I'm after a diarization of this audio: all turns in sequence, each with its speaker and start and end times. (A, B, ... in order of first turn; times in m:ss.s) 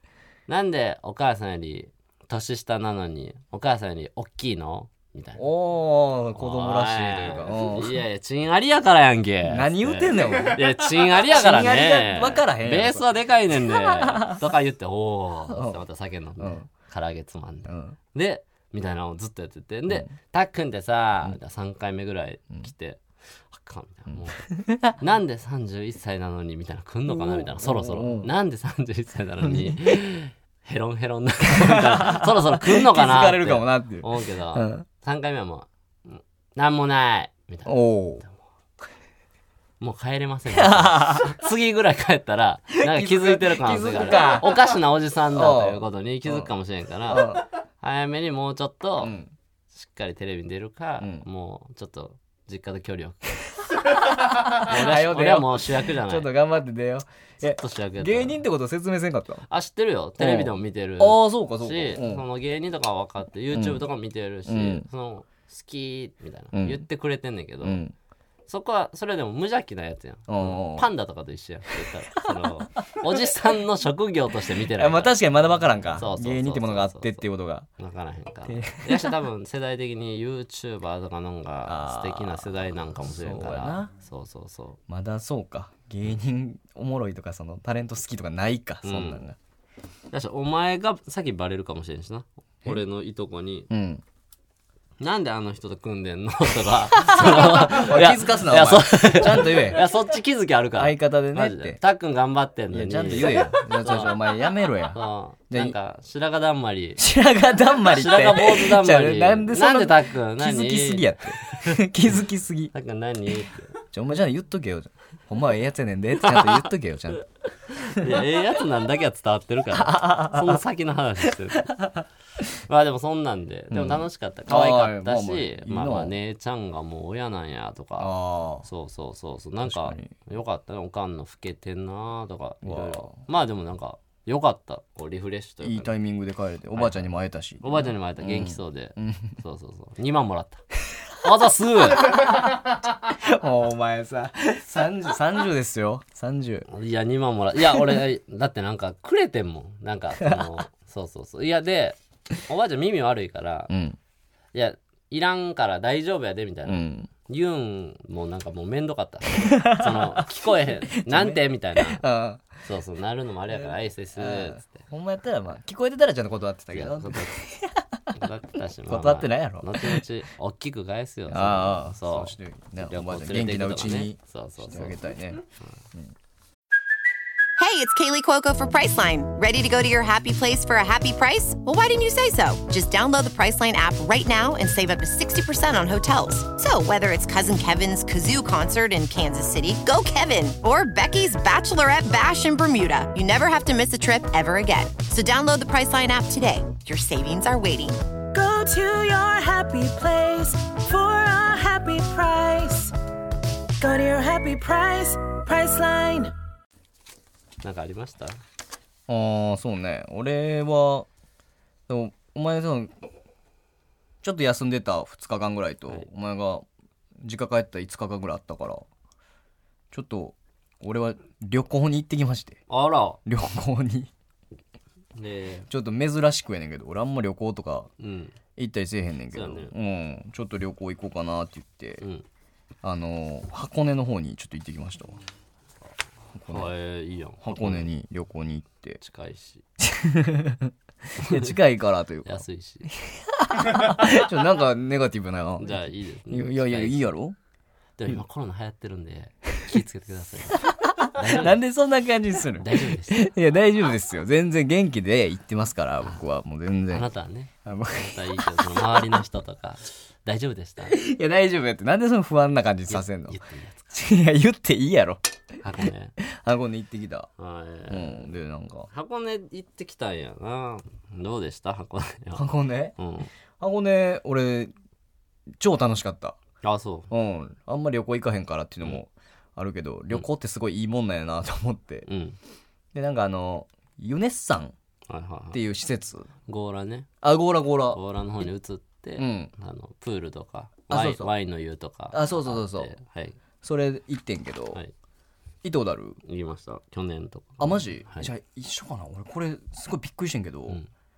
0:00.5-0:05.5 A
0:05.4-0:08.0 B
0:06.4-0:38.4 A
0:09.4-0:14.4 B
0:15.5-0:15.8 B
0:16.4-0:16.7 B
0:17.7-0:18.0 B
0:24.1-0:25.0 B
0:27.1-0:28.3 B
0:29.4-0:30.0 B
0:31.5-0:34.9 B
0:37.7-0:38.2 B
0:39.8-0:49.2 A
0:40.5-0:41.4 B
0:42.8-0:44.7 B
0:45.3-0:46.5 B
0:47.1-0:47.4 B
0:49.0-0:49.3 B
0:49.7-0:53.5 A
0:51.0-0:51.2 B
0:53.8-0:59.4 B
0:54.5-0:56.3 A
0:57.4-0:58.4 A
0:59.5-1:07.8 A
1:00.2-1:02.2 B
1:03.5-1:03.8 B
1:04.5-1:04.9 B
1:06.5-1:06.8 B
1:07.6-1:07.9 B
1:08.5-1:15.2 A
1:10.3-1:10.9 B
1:12.2-1:12.9 B
1:14.7-1:17.7 B
1:16.0-1:17.2 A
1:17.8-1:24.8 A
1:18.5-1:19.2 B
1:21.6-1:23.9 B
1:24.9-1:29.4 B
1:28.8-1:29.2 A
1:30.1-1:33.7 A
1:33.7-1:34.0 B
1:35.0-1:44.3 A
1:37.0-1:39.8 B
1:40.8-1:41.8 B
1:42.7-1:45.8 B
1:44.9-1:47.0 A
1:47.0-1:52.7 B
1:47.9-1:51.8 A
1:52.7-1:53.8 A
1:53.8-1:57.2 B
1:57.7-2:01.7 A
1:59.7-2:00.6 B
2:01.3-2:02.0 B
2:02.7-2:15.9 A
2:03.7-2:06.1 B
2:08.0-2:08.7 B
2:09.6-2:10.2 B
2:12.6-2:13.2 B
2:15.6-2:19.4 B
2:16.8-2:17.0 A
2:17.6-2:20.6 A
2:21.2-2:22.2 A
2:22.0-2:26.7 B
2:26.7-2:33.7 A
2:30.2-2:30.5 B
2:33.7-2:34.0 B
2:34.5-2:42.0 A
2:36.7-2:37.1 B
2:39.4-2:40.5 B
2:41.0-2:42.5 B
2:42.6-2:44.8 A
2:43.5-2:48.2 B
2:46.7-2:47.4 A
2:48.2-2:55.0 A
2:48.9-2:50.0 B
2:51.3-2:55.4 B
2:57.6-3:18.0 C
3:18.3-3:22.9 D
3:23.8-3:26.3 D
3:27.6-3:28.4 A
3:29.1-3:31.1 B
3:31.9-3:32.9 B
3:34.2-3:36.7 B
3:37.2-3:38.9 B
3:39.9-3:42.6 B
3:42.7-3:43.2 A
3:43.2-3:44.1 B
3:45.2-3:45.7 A
3:45.7-3:47.9 B
3:48.0-3:48.4 A
3:48.6-3:52.0 B
3:49.3-3:49.7 A
3:52.0-3:52.2 A
3:52.8-3:55.2 B
3:56.4-3:56.7 B
3:56.5-3:57.9 A
3:57.4-3:59.0 B
3:59.0-3:59.6 A
3:59.8-4:07.4 B
4:01.2-4:01.6 A
4:02.2-4:02.9 A
4:05.6-4:07.1 A
4:08.0-4:11.6 A
4:10.6-4:17.1 B
4:12.6-4:13.3 A
4:16.9-4:21.0 A
4:17.6-4:19.2 B
4:20.9-4:23.4 B
4:22.9-4:23.8 A
4:23.9-4:25.2 B
4:25.6-4:26.2 A
4:26.2-4:27.3 B
4:27.4-4:28.3 A
4:27.9-4:28.9 B
4:28.9-4:33.3 A
4:32.4-4:33.0 B
4:33.6-4:34.7 B
4:35.6-4:36.4 B
4:36.6-4:37.1 A
4:37.1-4:42.1 B
4:42.1-4:42.4 A
4:42.9-4:44.8 B
4:45.1-4:45.6 A
4:45.5-4:46.3 B
4:46.5-4:47.1 A
4:47.2-4:48.0 B
4:47.9-4:53.4 A
4:49.2-4:49.5 B
4:50.9-4:51.3 B
4:52.1-4:52.9 B
4:53.6-4:54.8 B
4:55.6-4:56.2 B
4:56.2-4:58.3 A
4:57.6-5:00.8 B